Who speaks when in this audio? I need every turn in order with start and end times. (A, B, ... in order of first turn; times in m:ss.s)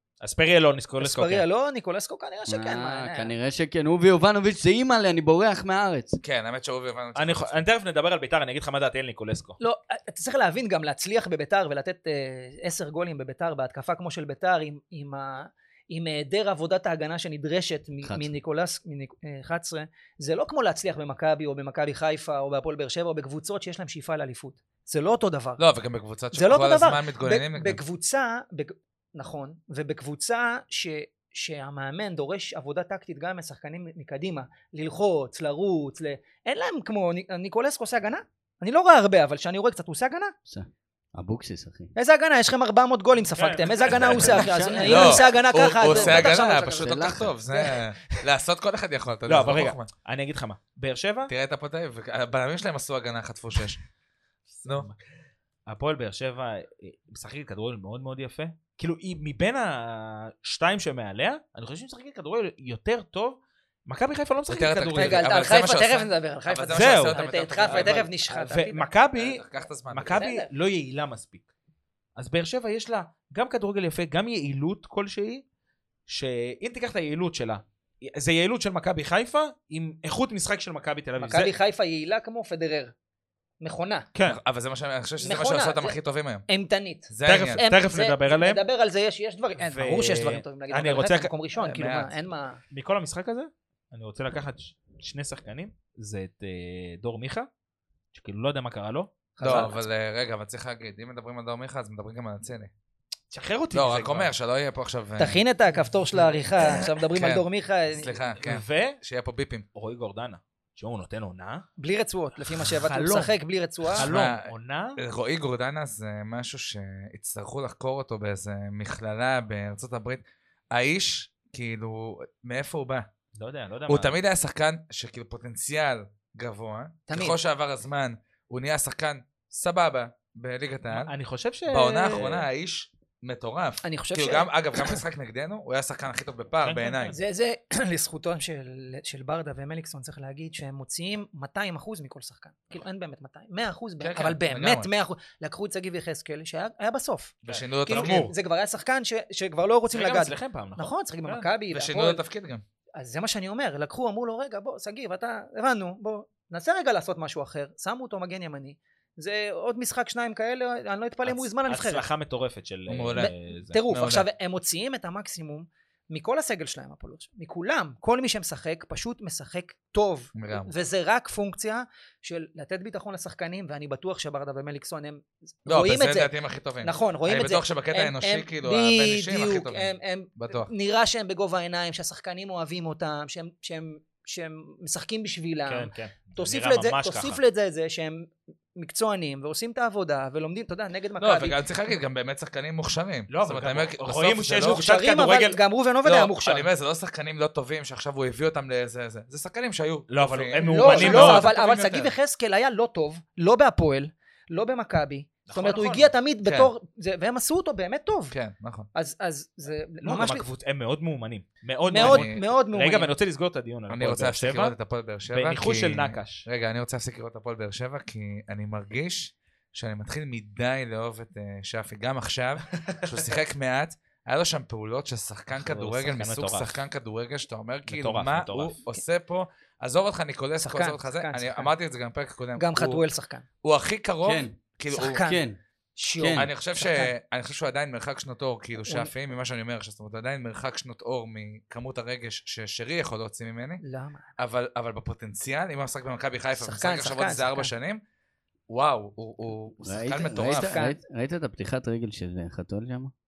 0:00.2-0:01.4 A
0:01.0-0:03.3 B
0:02.5-0:06.2 C
0:06.2-0:07.6 D
0:07.2-0:09.6 A
0:09.6-0:25.6 B
0:18.0-0:18.3 C
0:25.6-0:27.8 D
0:26.3-0:40.3 B
0:40.5-0:41.9 C
0:42.0-0:47.8 B
0:43.3-0:44.5 A
0:44.0-0:47.3 C
0:44.8-0:49.9 D
0:49.3-0:51.3 A
0:51.3-0:53.8 D
0:54.5-0:55.0 A
0:55.7-1:05.4 A
1:04.5-1:08.1 D
1:04.9-1:08.9 B
1:06.7-1:11.4 A
1:09.2-1:10.2 D
1:10.2-1:10.5 B
1:12.2-1:15.4 A
1:16.1-1:21.5 A
1:21.2-1:22.9 B
1:23.6-1:24.1 B
1:24.3-1:26.5 D
1:25.2-1:26.0 B
1:26.5-1:32.6 B
1:27.1-1:27.6 D
1:27.2-1:28.6 A
1:29.6-1:31.3 A
1:31.6-1:32.1 D
1:32.7-1:37.5 A
1:38.1-1:39.1 A
1:39.4-1:39.8 B
1:39.4-1:42.7 D
1:43.3-1:44.3 A
1:43.7-1:45.4 D
1:45.2-1:48.2 B
1:46.6-1:49.6 D
1:48.4-1:49.0 A
1:49.8-1:51.7 A
1:51.8-1:54.1 B
1:52.6-1:53.4 A
1:54.0-1:55.0 A
1:54.0-2:03.1 D
2:03.4-2:04.2 A
2:03.9-2:11.1 D
2:07.1-2:07.4 B
2:10.9-2:12.5 A
2:11.7-2:17.2 D
2:13.8-2:15.0 B
2:16.6-2:17.2 A
2:17.1-2:32.2 B
2:24.0-2:24.9 D
2:27.4-2:28.3 D
2:27.5-2:28.3 A
2:29.9-2:31.5 A
2:31.7-2:32.6 D
2:33.0-2:42.1 B
2:41.3-2:43.8 A
2:42.9-2:43.3 D
2:43.2-3:11.6 B
2:43.9-2:44.3 D
2:50.4-2:50.7 D
2:55.7-3:00.7 D
3:05.7-3:07.4 A
3:11.2-3:14.8 D
3:13.3-3:15.6 A
3:14.6-3:16.7 B
3:16.0-3:22.1 D
3:20.1-3:21.5 A
3:20.6-3:28.4 B
3:25.5-3:26.1 A
3:26.5-3:26.7 D
3:28.3-3:28.9 D
3:29.0-3:30.5 B
3:30.0-3:34.8 A
3:31.9-3:33.1 B
3:32.0-3:32.4 D
3:33.9-3:53.0 D
3:35.3-3:36.4 A
3:42.8-3:43.4 A
3:45.6-3:46.8 A
3:47.9-3:48.8 A
3:50.6-3:51.7 B
3:52.6-3:53.4 B
3:53.6-3:55.2 D
3:54.2-3:55.6 C
3:54.9-3:55.4 B
3:56.0-3:57.1 B
3:56.2-3:56.5 C
3:56.3-4:03.8 D
3:58.9-3:59.1 B
4:03.8-4:04.3 B
4:04.4-4:08.0 D
4:06.6-4:07.7 B
4:08.7-4:10.8 D
4:09.8-4:13.1 C
4:10.6-4:11.0 B